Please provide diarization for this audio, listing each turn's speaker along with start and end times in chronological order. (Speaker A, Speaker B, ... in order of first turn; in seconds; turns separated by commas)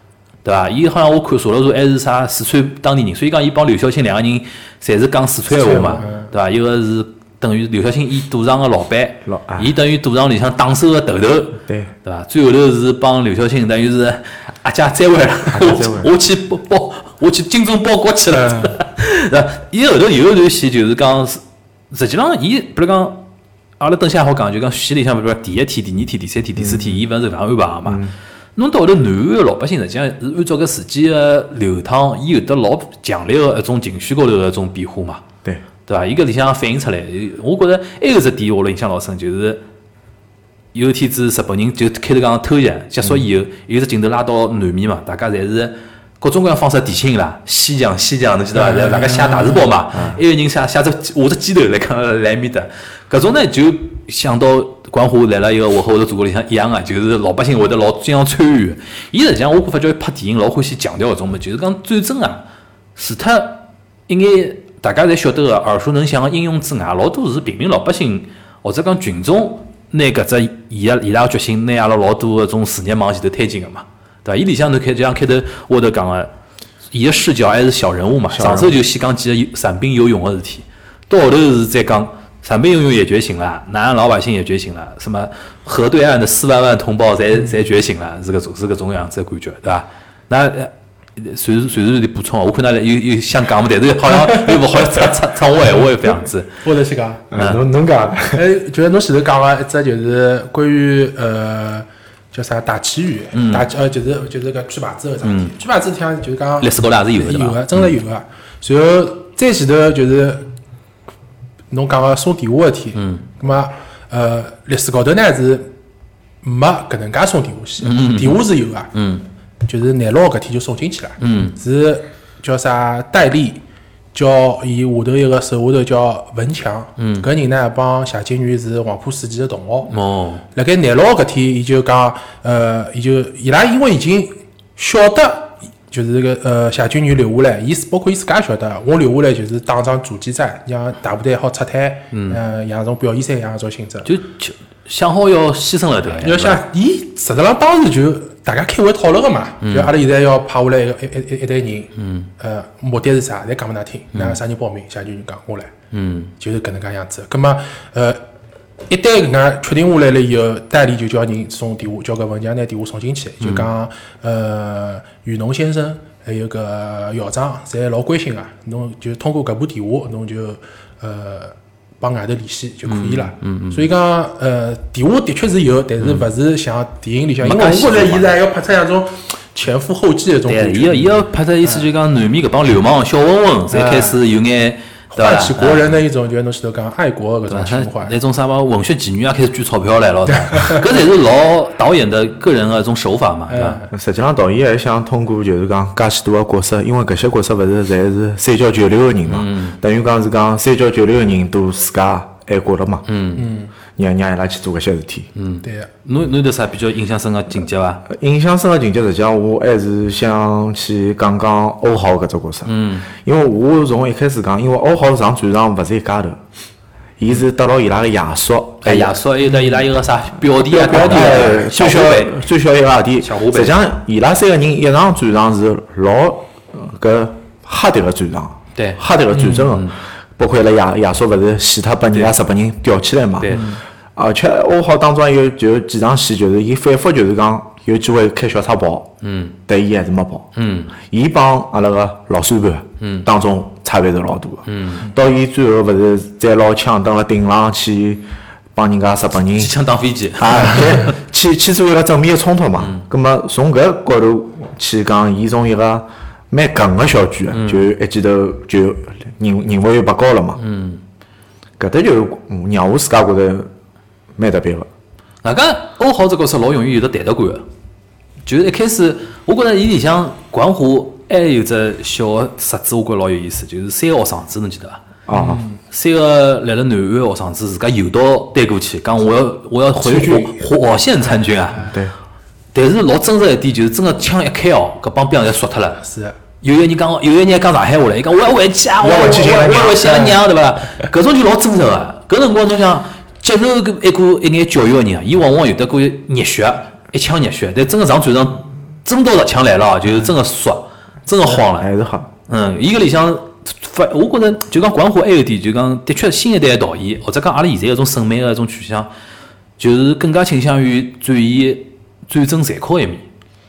Speaker A: 0.4-23.2, Speaker B: 5.5-6.3, Speaker C: 9.2-9.7, Speaker C: 11.7-11.9, Speaker C: 15.5-16.1, Speaker A: 23.8-28.0, Speaker C: 26.6-27.0, Speaker C: 27.9-28.1, Speaker A: 28.6-35.2, Speaker A: 35.9-39.6, Speaker A: 40.7-62.4, Speaker B: 48.5-49.7, Speaker C: 49.9-50.2, Speaker A: 63.0-76.3, Speaker A: 76.9-96.5, Speaker C: 78.3-78.8, Speaker B: 96.6-97.2, Speaker C: 97.3-98.4, Speaker A: 97.3-97.6, Speaker B: 98.3-110.4, Speaker A: 103.3-103.7, Speaker A: 105.2-105.5, Speaker A: 106.6-107.9, Speaker B: 111.7-115.7, Speaker A: 113.0-113.2, Speaker B: 116.4-118.9, Speaker A: 117.8-118.4, Speaker A: 118.9-119.2, Speaker B: 119.7-123.6, Speaker A: 121.2-121.6, Speaker B: 124.1-129.9, Speaker A: 127.0-127.3, Speaker A: 129.9-130.4, Speaker B: 130.5-144.1, Speaker A: 142.1-142.4, Speaker A: 144.0-146.6, Speaker B: 146.2-155.7, Speaker A: 149.6-149.9, Speaker A: 152.0-152.3, Speaker A: 154.1-154.4, Speaker A: 155.9-156.3, Speaker B: 156.4-158.2, Speaker B: 158.9-181.9, Speaker A: 163.4-163.7, Speaker A: 172.8-173.9, Speaker A: 177.4-178.3, Speaker A: 180.5-185.9, Speaker B: 183.7-184.2, Speaker B: 185.1-188.1, Speaker A: 187.5-193.8, Speaker B: 193.5-193.9, Speaker C: 193.9-203.1, Speaker A: 199.3-199.8, Speaker A: 203.1-203.4, Speaker B: 203.3-203.7, Speaker C: 203.9-205.3, Speaker A: 205.3-208.0, Speaker B: 205.6-205.9, Speaker C: 208.1-216.4, Speaker A: 212.7-213.1, Speaker C: 217.2-219.2, Speaker A: 218.8-222.4, Speaker C: 220.6-233.6, Speaker B: 220.9-221.5, Speaker A: 223.2-223.8, Speaker A: 228.8-229.9, Speaker A: 233.4-233.8, Speaker C: 234.1-239.1, Speaker A: 239.2-239.6, Speaker C: 239.7-240.5, Speaker A: 240.6-240.9, Speaker C: 241.0-249.7, Speaker A: 243.0-243.3, Speaker A: 244.7-245.1, Speaker A: 249.5-251.1, Speaker C: 250.3-260.6, Speaker A: 257.5-257.9, Speaker A: 260.6-261.0, Speaker C: 261.8-263.7, Speaker C: 264.4-264.9, Speaker A: 265.4-267.6, Speaker A: 268.4-281.9, Speaker C: 275.3-275.6, Speaker B: 275.3-275.8, Speaker C: 280.0-280.5, Speaker C: 281.8-282.1, Speaker A: 282.7-286.0, Speaker B: 286.0-286.4, Speaker A: 286.6-301.9, Speaker C: 289.0-290.2, Speaker B: 290.1-290.4, Speaker C: 301.6-302.3, Speaker A: 302.5-309.1, Speaker A: 309.8-313.2